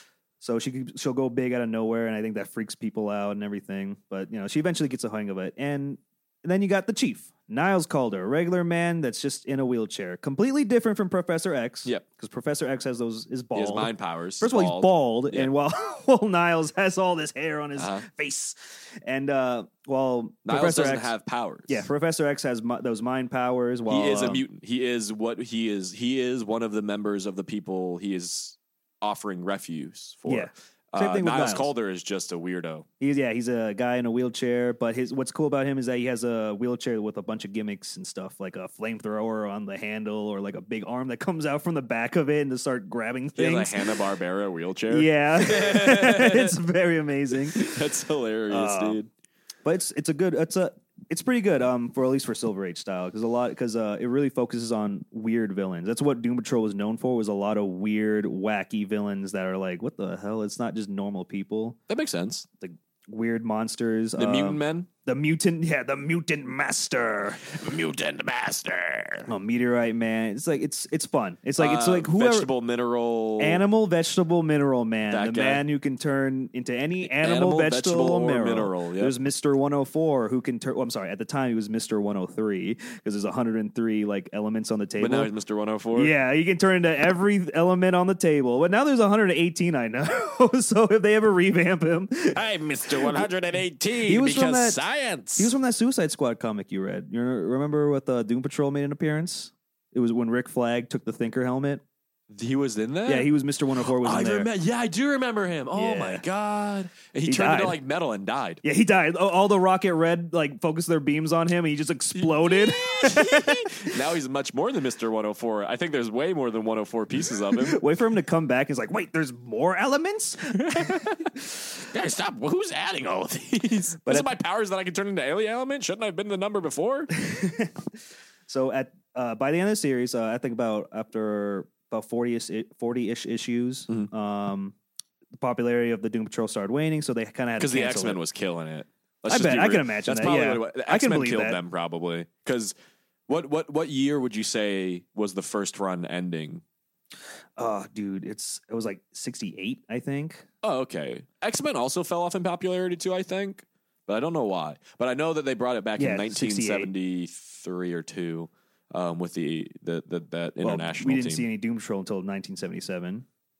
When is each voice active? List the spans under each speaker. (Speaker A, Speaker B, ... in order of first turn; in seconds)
Speaker A: 0.4-21.1, 21.7-24.4, 30.2-31.7, 33.0-44.0, 44.9-47.8, 48.5-49.0, 49.6-61.8, 62.6-67.4, 69.3-72.5, 73.4-85.3, 85.9-93.3, 94.0-94.8, 95.3-101.8, 103.1-104.5, 105.7-106.2, 107.2-107.8, 108.6-114.0, 117.5-121.2, 127.1-127.8, 128.5-134.7, 135.4-138.2, 139.3-141.6, 147.6-150.4, 156.0-156.9, 160.6-163.2
Speaker B: 13.5-15.5, 17.8-18.1, 20.4-21.9, 23.9-32.9, 43.4-46.6, 47.3-49.1, 61.9-62.5, 64.2-64.9, 67.4-69.3, 71.6-73.6, 75.1-75.6, 77.0-79.1, 85.0-86.1, 92.3-95.5, 102.3-108.6, 112.1-117.8, 120.5-127.1, 137.6-142.7, 143.3-146.6, 150.6-161.4